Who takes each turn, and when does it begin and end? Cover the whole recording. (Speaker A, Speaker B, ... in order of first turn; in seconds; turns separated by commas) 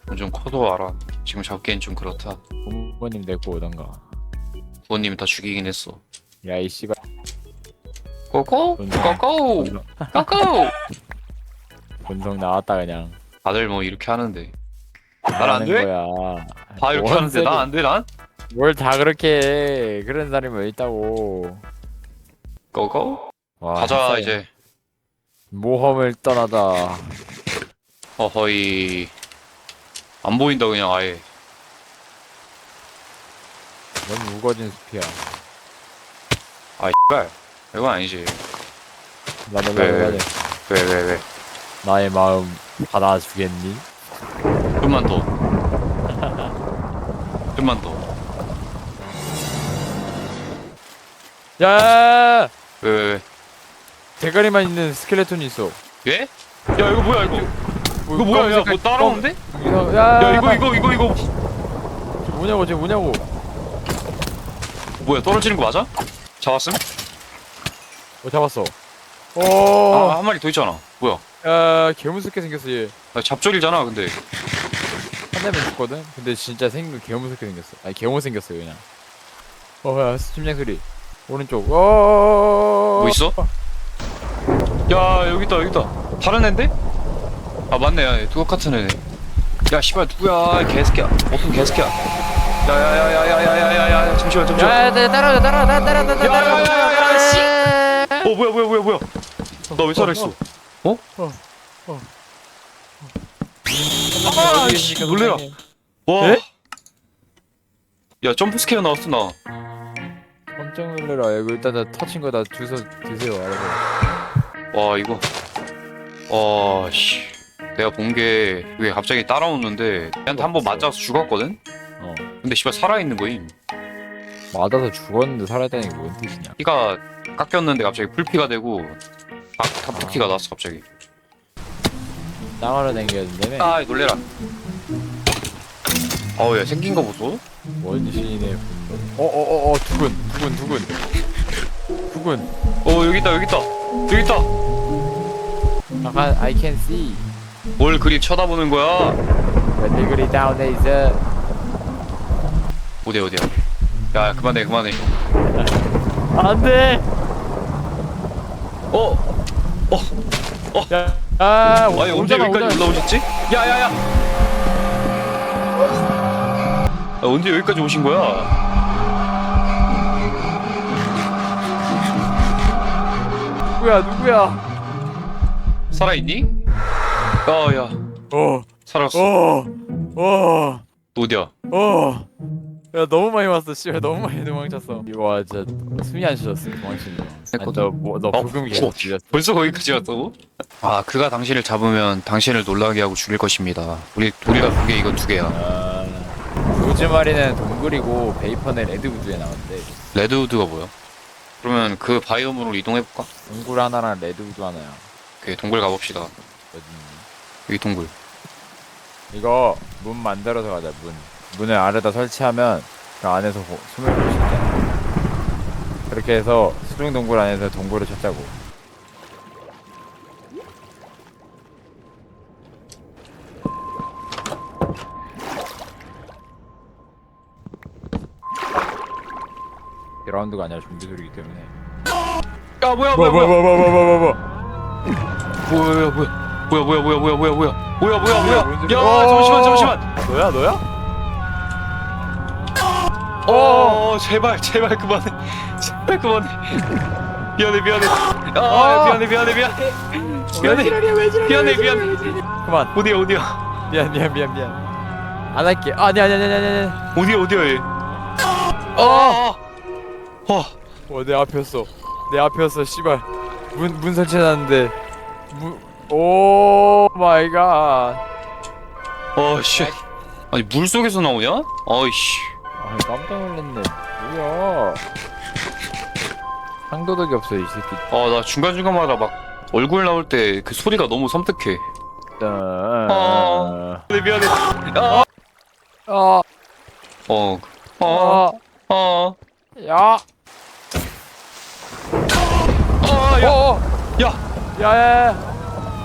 Speaker A: 0.1-2.4, Speaker B: 2.6-4.0, Speaker A: 4.9-6.0, Speaker B: 6.4-7.0, Speaker A: 8.3-10.7, Speaker B: 8.8-10.3, Speaker B: 12.1-13.2, Speaker A: 13.4-14.5, Speaker B: 15.3-17.7, Speaker A: 15.4-15.9, Speaker A: 16.8-18.1, Speaker B: 18.5-21.7, Speaker A: 22.7-24.5, Speaker B: 23.6-24.4, Speaker B: 25.5-27.2, Speaker A: 28.2-29.1, Speaker A: 30.2-31.3, Speaker B: 34.0-35.2, Speaker A: 36.8-38.4, Speaker B: 39.5-40.3, Speaker A: 39.8-41.2, Speaker B: 41.8-43.9, Speaker A: 44.8-45.3, Speaker B: 46.1-46.5, Speaker A: 47.5-48.0, Speaker B: 51.6-52.5, Speaker A: 52.8-53.2, Speaker B: 54.2-55.8, Speaker A: 56.0-57.5, Speaker B: 57.2-57.5, Speaker B: 58.0-60.7, Speaker A: 58.1-59.4, Speaker A: 60.2-61.3, Speaker B: 62.2-63.3, Speaker A: 65.0-65.9, Speaker A: 66.4-66.8, Speaker B: 68.2-68.8, Speaker B: 69.3-70.2, Speaker A: 69.9-71.2, Speaker B: 71.4-72.9, Speaker A: 73.1-74.2, Speaker B: 75.3-78.8, Speaker B: 79.8-83.5, Speaker A: 83.0-83.4, Speaker A: 84.9-86.7, Speaker A: 87.7-89.0, Speaker A: 89.7-92.0, Speaker A: 92.6-94.8, Speaker B: 94.6-98.3, Speaker A: 96.2-97.6, Speaker A: 98.2-99.1, Speaker A: 99.7-101.0, Speaker B: 99.9-100.3, Speaker B: 101.2-102.1, Speaker B: 103.7-105.6, Speaker A: 104.2-105.5, Speaker A: 106.1-106.4, Speaker A: 108.2-109.4, Speaker B: 110.6-113.8, Speaker A: 114.7-115.3, Speaker A: 116.3-121.6, Speaker B: 120.3-120.9, Speaker B: 122.0-122.3, Speaker A: 122.4-123.5, Speaker B: 124.5-126.6, Speaker A: 126.6-129.0, Speaker A: 129.6-130.8, Speaker B: 129.9-130.4, Speaker B: 132.6-133.8, Speaker A: 133.6-134.2, Speaker A: 136.4-137.4, Speaker B: 137.8-141.0, Speaker B: 142.1-142.5, Speaker A: 142.8-144.5, Speaker B: 146.0-147.3, Speaker A: 147.8-149.2, Speaker B: 149.8-151.2, Speaker A: 153.0-153.5, Speaker A: 154.1-155.0, Speaker B: 155.5-157.1, Speaker A: 158.9-159.2, Speaker B: 160.9-163.1, Speaker A: 161.9-164.0, Speaker A: 167.2-168.5, Speaker B: 173.8-174.6, Speaker A: 175.9-176.6, Speaker A: 177.5-178.0, Speaker B: 178.3-180.8, Speaker A: 178.9-179.3, Speaker A: 181.2-181.5, Speaker B: 181.7-182.3, Speaker B: 182.9-189.3, Speaker A: 187.5-195.6, Speaker B: 195.5-199.9, Speaker A: 200.1-200.9, Speaker A: 201.6-203.3, Speaker B: 203.5-205.1, Speaker A: 205.4-206.3, Speaker B: 206.7-207.3, Speaker A: 207.7-208.1, Speaker B: 209.3-214.9, Speaker B: 216.1-218.6, Speaker B: 230.2-231.7, Speaker A: 232.8-233.6, Speaker B: 233.1-234.4, Speaker A: 235.6-240.1, Speaker B: 238.4-240.8, Speaker B: 243.4-244.0, Speaker A: 243.5-246.8, Speaker A: 247.6-252.4, Speaker B: 248.7-249.3, Speaker B: 250.5-251.9, Speaker B: 252.6-252.9, Speaker A: 252.9-253.6, Speaker B: 253.9-254.8, Speaker B: 255.5-257.0, Speaker A: 257.1-257.9, Speaker B: 258.9-259.4, Speaker A: 259.0-259.6, Speaker A: 260.5-260.7, Speaker B: 261.1-264.9, Speaker B: 265.5-268.2, Speaker A: 269.4-270.0, Speaker B: 269.7-270.0, Speaker A: 270.5-272.6, Speaker B: 272.8-275.1, Speaker B: 276.9-278.0, Speaker A: 278.1-281.9, Speaker B: 282.4-284.1, Speaker A: 283.1-285.3, Speaker B: 286.1-286.4, Speaker A: 287.3-289.4, Speaker B: 288.1-288.6, Speaker B: 289.8-290.2, Speaker A: 293.0-293.6, Speaker B: 293.4-293.8, Speaker B: 294.8-295.4